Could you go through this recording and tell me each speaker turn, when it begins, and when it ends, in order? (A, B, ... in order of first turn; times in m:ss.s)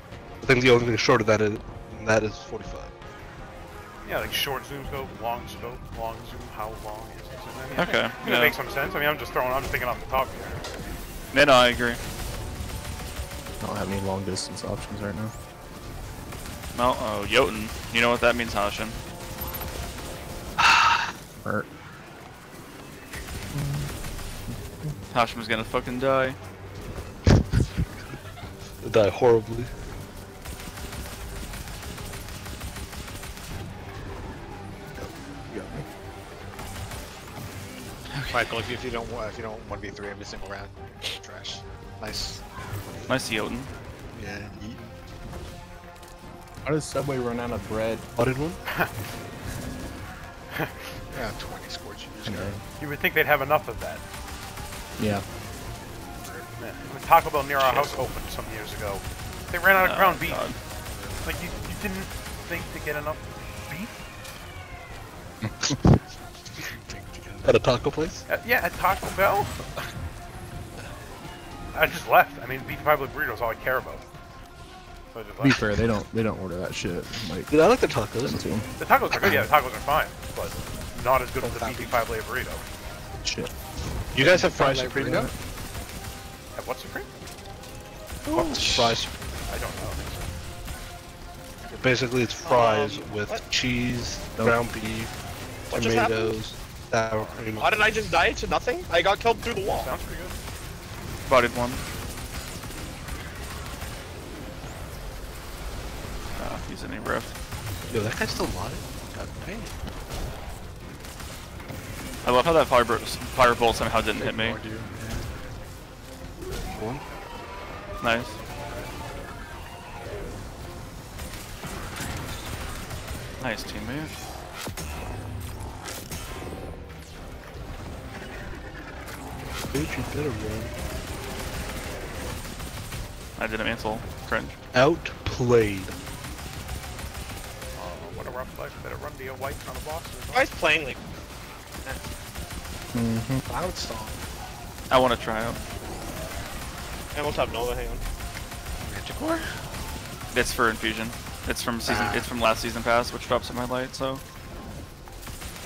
0:00.4-0:02.9 A
0:04.0-0:11.0 B
0:07.8-0:08.6 C
0:11.3-0:12.0 C
0:13.6-0:15.3 D
0:16.7-0:19.0 C
0:20.6-0:21.0 A
0:21.4-0:21.7 D
0:23.5-0:23.9 D
0:24.5-0:25.0 D
0:25.1-0:26.4 C
0:28.8-0:29.7 A
0:35.5-0:35.8 D
0:38.1-0:38.5 C
0:38.3-0:42.4 E
0:43.1-0:43.7 C
0:44.1-0:44.8 E
0:46.6-0:48.0 D
0:48.2-0:48.6 A
0:48.7-0:48.9 B
0:50.5-0:51.0 B
0:51.1-0:52.6 E
0:52.2-0:52.6 D
0:52.8-0:54.0 B
0:55.0-0:55.2 D
0:56.1-0:56.5 E
0:56.6-1:00.6 B
0:59.8-1:00.6 C
1:00.9-1:01.3 E
1:01.2-1:04.0 B
1:05.4-1:05.7 D
1:06.6-1:07.6 E
1:07.4-1:08.2 A
1:08.3-1:09.8 B
1:11.7-1:14.1 B
1:15.1-1:15.8 B
1:15.4-1:17.5 D
1:17.5-1:18.4 A
1:18.2-1:19.5 D
1:18.8-1:22.7 B
1:21.4-1:22.1 E
1:23.2-1:23.5 D
1:24.1-1:25.3 A
1:24.2-1:25.3 E
1:26.6-1:27.1 B
1:28.3-1:29.1 A
1:29.5-1:30.3 B
1:31.7-1:35.1 A
1:32.4-1:33.4 F
1:35.7-1:37.9 A
1:35.7-1:36.4 F
1:37.2-1:37.4 B
1:37.6-1:40.0 F
1:39.7-1:40.4 B
1:41.3-1:41.8 C
1:46.4-1:47.3 C
1:47.9-1:49.4 A
1:49.2-1:49.7 E
1:52.2-1:54.6 C
1:54.2-1:55.3 E
1:56.7-1:57.0 A
1:58.0-1:58.4 C
2:03.4-2:04.1 C
2:09.7-2:10.7 A
2:13.4-2:14.6 C
2:14.7-2:16.0 A
2:17.8-2:20.5 B
2:20.3-2:21.0 F
2:22.9-2:23.4 D
2:23.5-2:24.2 E
2:24.9-2:25.6 C
2:27.1-2:28.0 F
2:28.8-2:29.6 E
2:30.3-2:34.2 C
2:31.9-2:32.3 E